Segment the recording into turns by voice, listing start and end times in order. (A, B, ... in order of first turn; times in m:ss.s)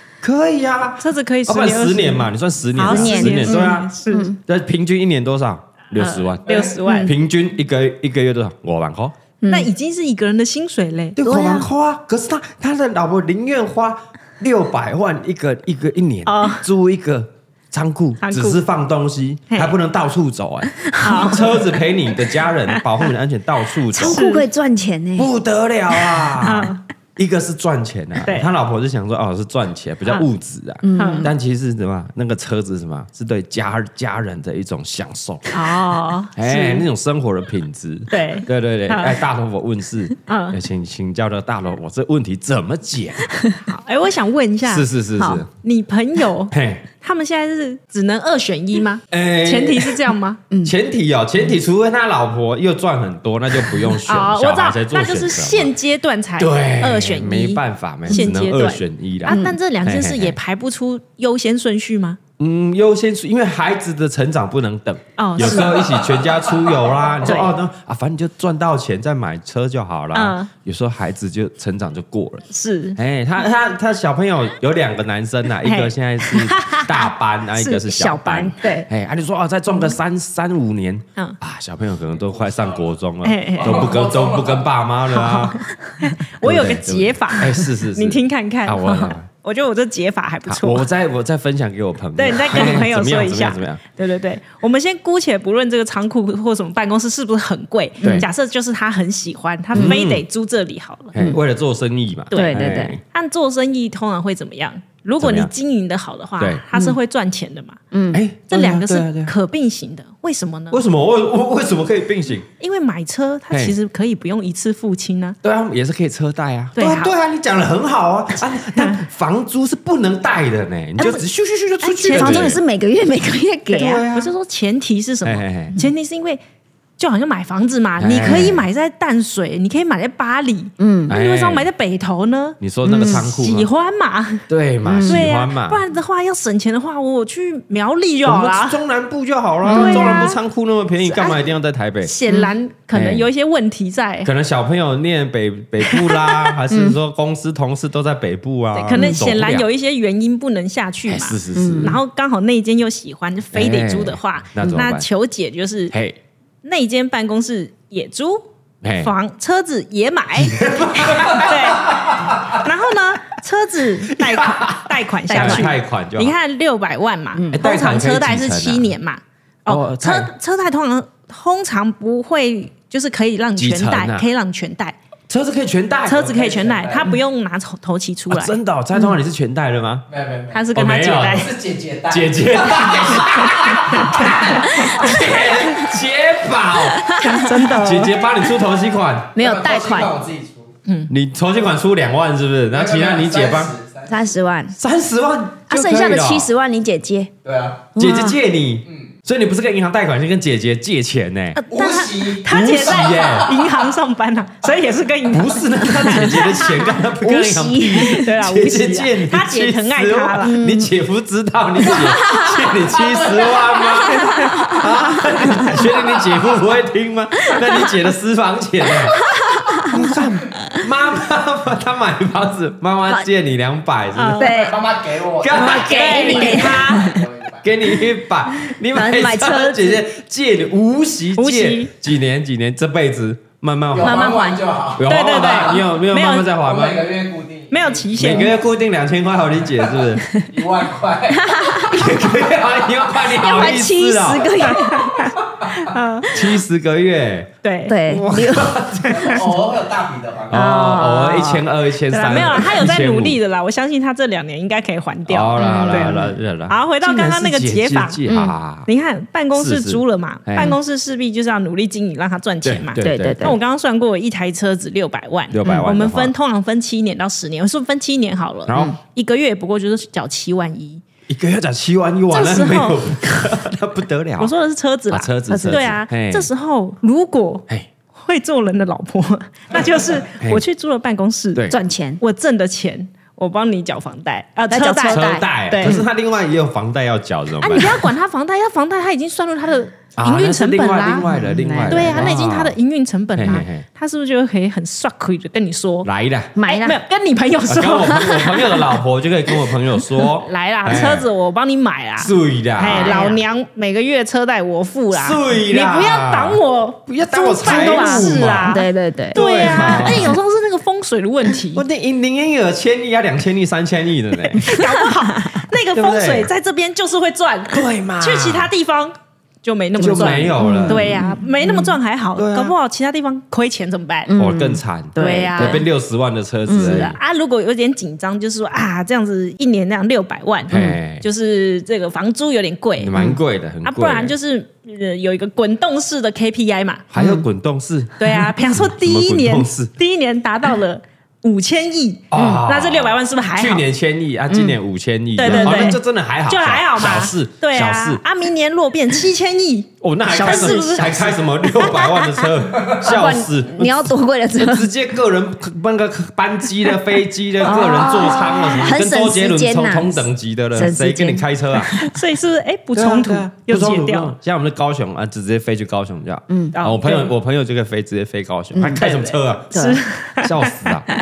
0:00.2-0:09.2 A
0:01.0-0:04.3 B
0:02.8-0:04.4 C
0:06.0-0:07.1 B
0:06.5-0:06.7 D
0:06.9-0:07.1 C
0:09.4-0:09.7 C
0:09.5-0:11.2 B
0:11.2-0:24.2 A
0:11.2-0:11.7 C
0:16.3-0:16.6 B
0:18.2-0:18.6 B
0:21.0-0:21.6 B
0:23.9-0:25.3 C
0:24.1-0:24.4 B
0:25.2-0:35.6 A
0:26.4-0:26.8 B
0:30.8-0:31.3 C
0:31.0-0:31.3 B
0:35.5-0:36.8 B
0:36.4-0:43.3 A
0:38.1-0:39.2 B
0:40.3-0:40.6 B
0:43.7-0:44.9 B
0:44.6-0:45.5 A
0:45.2-0:45.4 C
0:45.6-0:50.4 B
0:46.5-0:46.8 A
0:49.1-0:50.0 A
0:50.6-0:55.7 A
0:54.0-1:02.2 B
0:56.4-1:00.4 A
0:59.3-0:59.6 C
1:02.4-1:12.4 A
1:05.2-1:05.8 B
1:05.8-1:06.1 D
1:07.2-1:07.6 B
1:10.1-1:10.5 B
1:12.5-1:13.0 B
1:13.0-1:25.6 A
1:15.6-1:18.9 B
1:17.9-1:18.7 C
1:23.2-1:23.9 B
1:23.6-1:24.7 D
1:25.1-1:30.9 B
1:26.4-1:29.2 A
1:30.5-1:33.8 A
1:32.2-1:41.2 B
1:38.0-1:38.3 C
1:39.8-1:40.2 A
1:41.1-1:43.0 A
1:41.2-1:41.4 C
1:42.3-1:47.8 B
1:42.3-1:43.0 C
1:45.2-1:45.5 A
1:47.9-1:48.2 C
1:48.1-1:49.3 A
1:48.5-1:50.8 B
1:50.7-1:52.5 A
1:52.6-1:55.4 B
1:55.4-2:02.6 A
1:56.8-1:57.1 B
2:01.0-2:01.2 B
2:01.8-2:02.6 B
2:02.0-2:04.0 C
2:03.7-2:04.3 A
2:04.1-2:06.4 B
2:05.2-2:05.8 A
2:07.0-2:14.4 B
2:08.0-2:08.7 A
2:10.8-2:11.1 C
2:11.1-2:11.7 A
2:12.6-2:13.7 A
2:12.8-2:13.3 C
2:14.5-2:15.8 A
2:14.8-2:15.3 C
2:15.0-2:18.8 B
2:18.2-2:22.1 A
2:19.6-2:20.3 C
2:19.7-2:20.4 B
2:21.0-2:21.4 B
2:22.0-2:24.3 B
2:22.9-2:23.3 A
2:24.2-2:29.7 A
2:26.0-2:26.5 B
2:26.7-2:27.0 C
2:28.8-2:35.9 B
2:28.9-2:29.2 C
2:31.1-2:32.0 A
2:31.5-2:32.0 C
2:33.5-2:35.1 A
2:35.9-2:36.2 A
2:36.6-2:38.4 B
2:38.8-2:39.1 A
2:39.0-2:55.0 B
2:40.4-2:42.5 A
2:44.1-2:46.4 A
2:45.3-2:45.7 C
2:47.3-2:47.6 C
2:47.5-2:48.9 A
2:49.7-2:50.3 A
2:53.6-2:54.3 A
2:55.3-2:56.3 A
2:56.1-2:58.6 B
2:56.1-2:57.1 D
2:58.3-3:00.1 A
3:00.1-3:00.7 D
3:00.5-3:01.5 B
3:00.7-3:01.5 A
3:01.2-3:05.2 D
3:02.1-3:09.3 A
3:03.9-3:05.1 B
3:06.9-3:07.8 C
3:07.2-3:08.1 B
3:09.4-3:10.7 D
3:09.4-3:10.2 C
3:10.9-3:11.1 B
3:11.1-3:13.8 A
3:12.7-3:14.2 D
3:14.1-3:14.8 C
3:14.8-3:16.5 A
3:15.7-3:17.3 C
3:17.4-3:17.9 D
3:18.0-3:18.4 C
3:18.0-3:21.6 A
3:21.5-3:26.9 B
3:21.7-3:23.9 D
3:22.5-3:23.5 A
3:25.3-3:44.5 A
3:27.2-3:28.2 C
3:28.0-3:30.7 B
3:30.4-3:30.9 C
3:31.9-3:32.6 C
3:34.1-3:35.8 C
3:34.1-3:34.7 B
3:37.5-3:37.9 C
3:39.3-3:40.1 C
3:44.1-3:44.6 B
3:44.4-3:44.9 C
3:44.4-3:45.8 D
3:45.4-3:46.9 A
3:45.5-3:47.3 C
3:45.6-3:47.1 B
3:46.4-3:47.6 D
3:47.6-3:54.4 A
3:48.7-3:50.0 C
3:51.4-3:51.9 B
3:53.9-3:55.9 D
3:54.0-3:56.5 B
3:55.0-3:57.2 A
3:56.5-3:58.5 D
3:57.7-3:58.6 B
3:58.2-4:00.3 A
3:59.8-4:03.0 D
4:01.3-4:02.0 C
4:01.9-4:04.6 A
4:03.2-4:05.4 C
4:04.6-4:06.3 B
4:06.3-4:07.5 A
4:07.6-4:08.0 B
4:07.9-4:09.5 C
4:08.1-4:09.5 A
4:09.1-4:10.6 D
4:10.5-4:13.4 A
4:10.5-4:11.6 C
4:12.1-4:16.2 B
4:15.3-4:18.9 A
4:15.6-4:16.4 C
4:16.7-4:18.2 B
4:18.3-4:18.6 C
4:18.9-4:31.0 B
4:19.6-4:20.8 A
4:22.6-4:23.6 A
4:23.0-4:23.6 C
4:25.5-4:26.3 A
4:28.7-4:29.0 A
4:31.3-4:34.5 A
4:32.3-4:33.1 B
4:34.4-4:46.0 B
4:35.1-4:36.5 A
4:35.5-4:35.9 C
4:41.7-4:42.2 C
4:44.7-4:46.1 C
4:45.1-4:48.1 A
4:47.6-4:51.3 B
4:50.2-4:52.8 A
4:51.2-4:52.3 C
4:51.9-4:56.1 B
4:53.4-4:53.8 A
4:56.0-4:56.5 A
4:56.6-4:57.0 C
4:56.7-4:58.9 B
4:57.7-5:01.3 A
5:00.2-5:11.8 B
5:02.2-5:03.4 A
5:02.9-5:03.4 C
5:05.1-5:10.4 A
5:07.5-5:10.3 C
5:11.7-5:14.8 A
5:14.5-5:24.3 B
5:15.9-5:16.5 A
5:17.7-5:18.7 A
5:20.0-5:21.2 A
5:20.0-5:22.0 C
5:22.4-5:22.7 A
5:24.3-5:25.9 C
5:24.4-5:27.2 A
5:25.2-5:25.8 B
5:26.7-5:27.1 C
5:26.7-5:33.1 B
5:30.7-5:31.2 A
5:30.7-5:31.0 C
5:33.0-5:34.3 A
5:33.8-5:37.0 B
5:37.1-5:39.9 A
5:37.2-5:37.5 C
5:38.2-5:43.8 B
5:42.3-5:48.2 A
5:42.3-5:42.7 C
5:44.5-5:44.8 C
5:45.4-5:52.5 B
5:45.4-5:46.0 C
5:50.0-6:02.0 A
5:50.3-5:51.4 C
5:53.0-5:54.9 C
5:57.6-6:02.1 C
6:02.0-6:04.3 B
6:03.0-6:11.1 A
6:06.5-6:06.8 C
6:06.7-6:07.3 B
6:08.7-6:09.1 C
6:09.0-6:10.7 B
6:09.7-6:10.0 C